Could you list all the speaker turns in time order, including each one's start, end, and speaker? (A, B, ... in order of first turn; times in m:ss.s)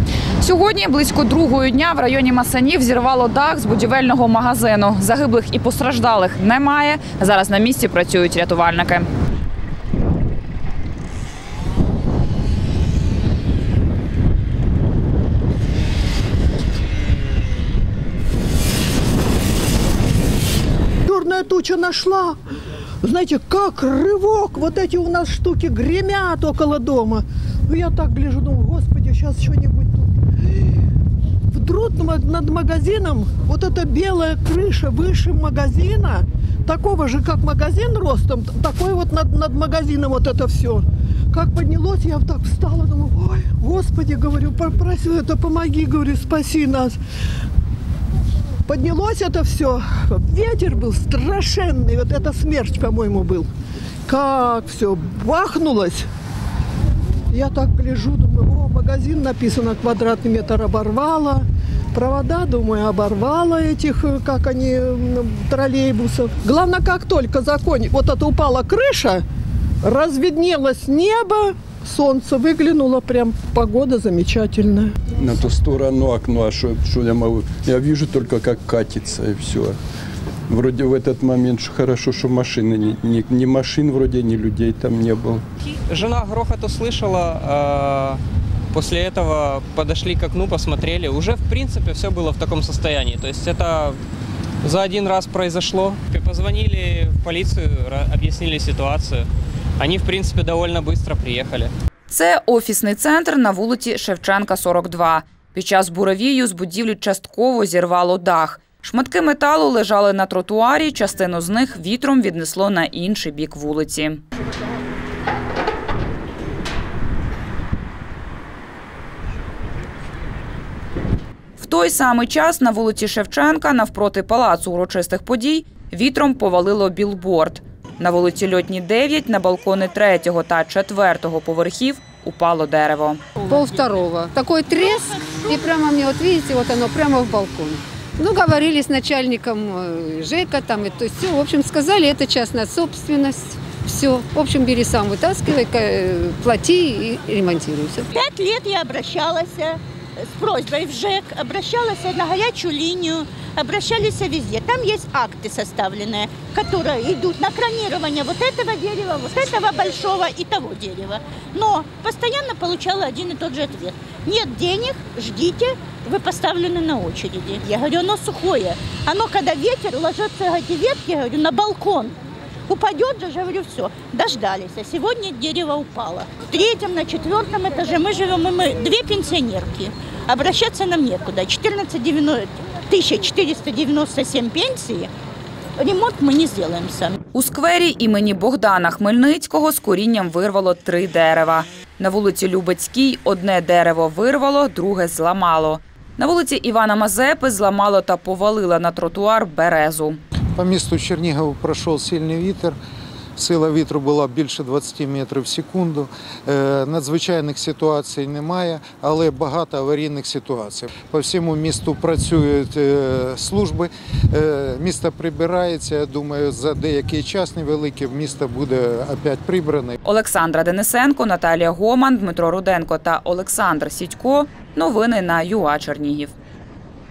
0:00.4-0:09.1 A
0:21.1-0:22.4 B
0:23.0-0:30.1 B
0:31.5-0:47.0 B
0:48.7-0:53.5 B
0:54.1-0:56.1 B
0:57.3-1:09.2 B
1:09.8-1:15.0 B
1:15.1-1:19.8 C
1:20.5-1:25.4 C
1:25.9-1:28.2 D
1:28.7-1:34.0 D
1:34.6-1:39.3 D
1:39.8-1:41.7 D
1:42.1-1:54.2 A
2:01.6-2:13.3 A
2:13.4-2:28.1 E
2:13.6-2:14.1 F
2:14.7-2:15.7 F
2:28.1-3:05.1 F
3:05.8-3:07.2 F
3:07.3-3:20.2 A
3:20.6-3:22.8 G
3:23.4-3:40.0 G
3:40.0-3:46.3 A